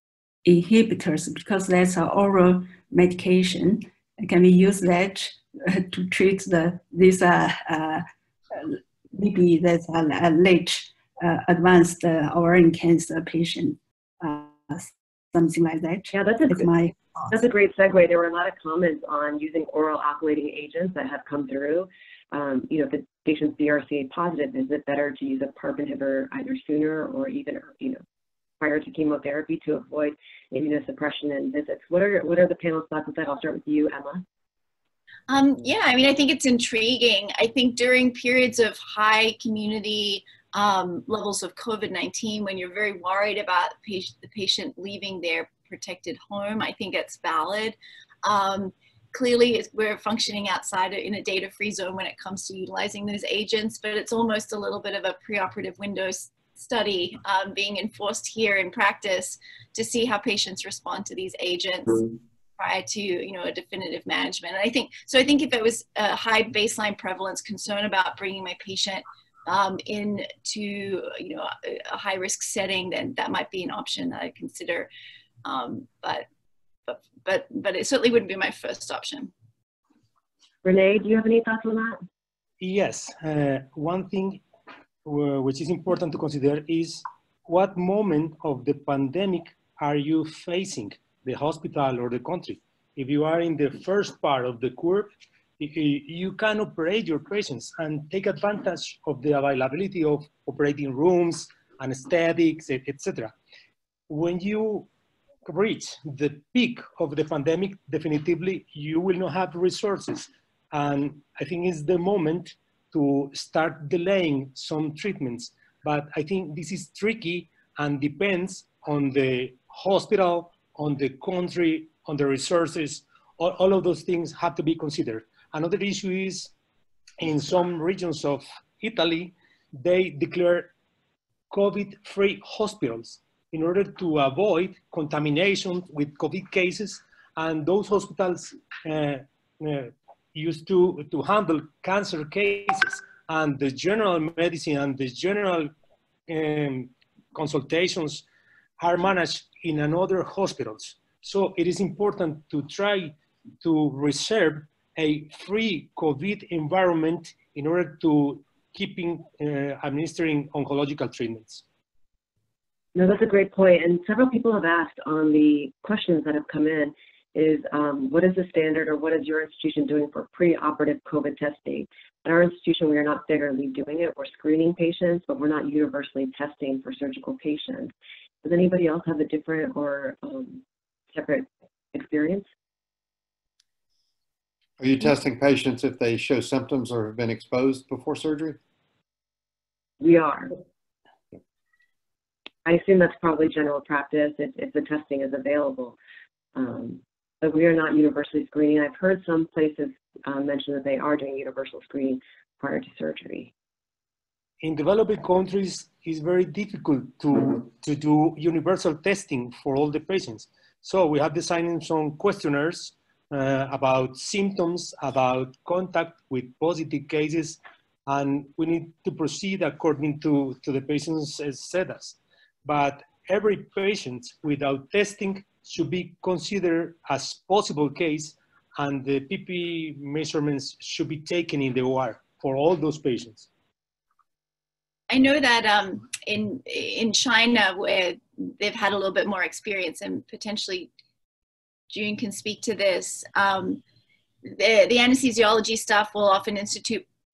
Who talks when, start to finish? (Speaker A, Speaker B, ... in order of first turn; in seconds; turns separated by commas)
Speaker A: 0.4-17.3, Speaker B: 16.1-16.7, Speaker B: 17.3-28.0, Speaker B: 28.6-34.2, Speaker C: 35.3-74.9, Speaker C: 75.4-76.2, Speaker C: 76.9-79.3, Speaker B: 80.6-82.0, Speaker D: 82.6-84.4, Speaker D: 85.0-103.3, Speaker D: 104.1-104.9, Speaker D: 105.5-126.5, Speaker D: 127.2-130.7, Speaker D: 131.5-145.7, Speaker D: 146.3-148.2, Speaker D: 148.8-161.6, Speaker B: 162.9-177.9, Speaker B: 178.4-182.5, Speaker E: 184.8-188.6, Speaker B: 190.0-190.6, Speaker B: 192.6-196.0, Speaker B: 196.5-203.5, Speaker D: 204.6-233.5, Speaker C: 235.1-240.9, Speaker C: 241.9-243.8, Speaker C: 244.4-247.0